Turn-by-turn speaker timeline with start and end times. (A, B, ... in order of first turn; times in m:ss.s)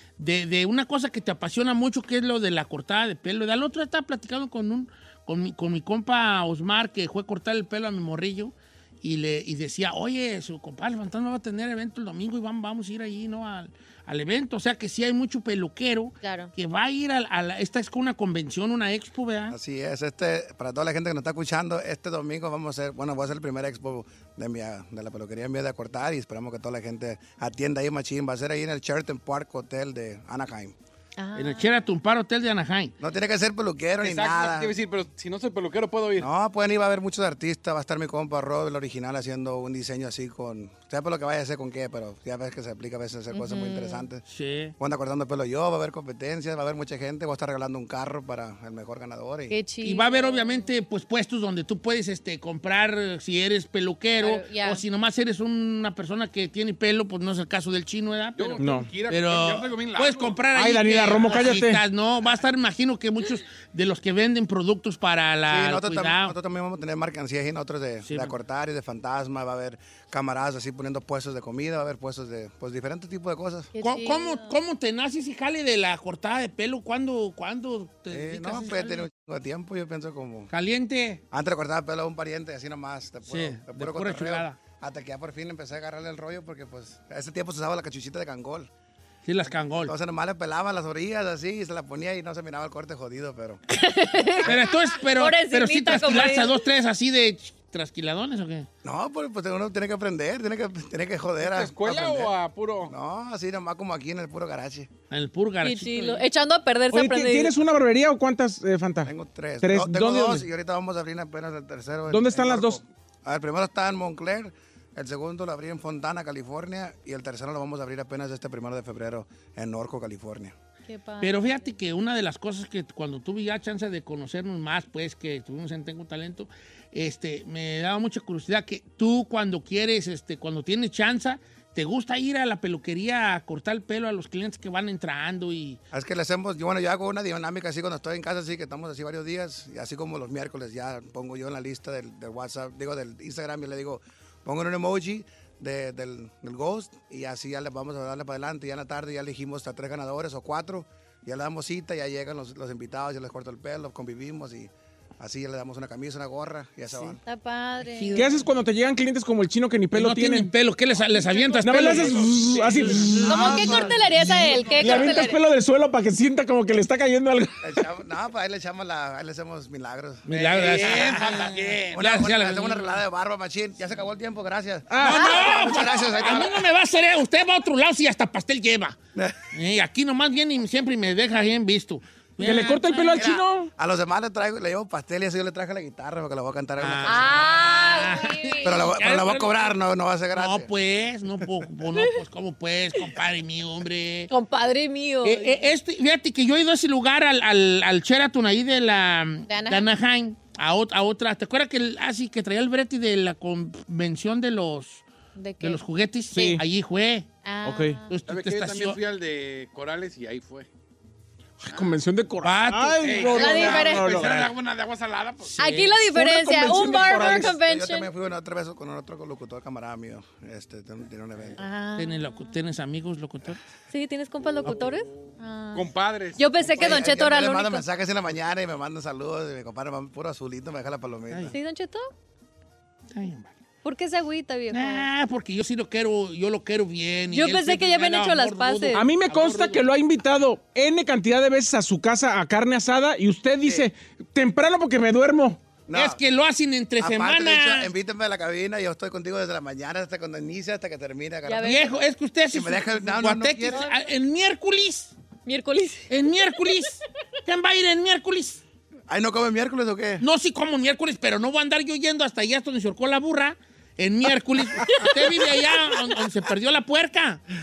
0:00.2-0:19.6 A
0:16.2-0:16.5 B
0:19.5-0:30.8 C
0:31.2-0:31.7 B
0:31.4-0:32.9 A
0:33.0-0:34.8 C
0:34.0-0:36.3 D
0:36.2-0:44.2 C
0:43.3-0:44.0 B
0:44.3-0:44.7 A
0:44.8-0:49.6 C
0:49.5-0:50.6 B
0:49.8-1:06.3 A
0:54.2-0:54.8 B
0:58.3-1:00.5 D
0:58.6-0:58.9 E
1:00.5-1:01.8 E
1:01.2-1:01.4 D
1:05.5-1:13.7 C
1:08.0-1:08.3 A
1:13.8-1:14.5 B
1:13.8-1:19.1 A
1:18.1-1:20.5 C
1:20.5-1:21.2 A
1:21.3-1:28.7 C
1:23.3-1:24.6 A
1:29.2-1:29.9 A
1:29.8-1:33.6 C
1:33.7-1:36.5 B
1:34.4-1:38.7 A
1:38.8-1:42.3 C
1:41.4-1:42.9 D
1:42.9-1:44.9 C
1:45.1-1:46.2 A
1:45.6-1:47.5 B
1:46.9-1:50.5 E
1:49.0-2:00.5 C
1:52.1-1:52.8 E
2:00.9-2:01.7 B
2:01.2-2:15.8 A
2:15.9-2:37.2 C
2:37.2-2:38.5 B
2:37.9-2:38.3 A
2:38.2-2:40.5 E
2:39.9-2:45.1 A
2:41.1-2:42.2 B
2:41.6-2:43.5 E
2:43.2-2:45.4 B
2:43.2-2:44.1 C
2:44.3-2:47.7 E
2:47.6-2:56.7 C
2:50.3-2:53.0 A
2:50.3-2:51.9 D
2:54.9-2:55.3 E
2:55.0-2:59.0 A
2:59.5-3:03.3 A
3:02.4-3:03.7 E
3:03.1-3:10.7 C
3:06.8-3:09.7 A
3:07.1-3:08.8 B
3:10.3-3:14.3 A
3:14.3-3:15.7 B
3:15.2-3:25.0 A
3:19.5-3:19.9 B
3:25.4-3:25.8 B
3:25.6-3:27.3 A
3:26.3-3:26.6 E
3:27.4-3:28.0 B
3:27.6-3:28.0 E
3:28.1-3:29.0 A
3:28.3-3:30.7 D
3:31.6-3:34.4 E
3:31.7-3:32.0 D
3:32.4-3:34.5 A
3:33.0-3:35.6 D
3:33.3-3:34.3 B
3:35.5-3:36.1 A
3:35.6-3:38.1 B
3:36.1-3:37.6 E
3:37.3-3:41.6 C
3:41.6-3:42.5 B
3:42.0-3:43.6 A
3:43.9-3:47.8 B
3:45.7-3:47.0 D
3:46.6-3:51.6 C
3:51.3-3:51.5 A
3:51.5-3:52.1 B
3:53.1-3:53.5 A
3:53.8-3:55.1 B
3:54.7-3:59.8 A
3:57.3-3:59.0 B
3:58.9-4:05.6 E
4:05.9-4:06.2 C
4:05.9-4:07.9 A
4:07.0-4:11.9 C
4:11.4-4:12.0 B
4:11.6-4:15.1 A
4:12.5-4:13.9 C
4:13.7-4:14.1 B
4:15.5-4:16.6 B
4:16.1-4:18.6 A
4:19.1-4:20.2 C
4:20.2-4:27.4 A
4:25.0-4:25.5 B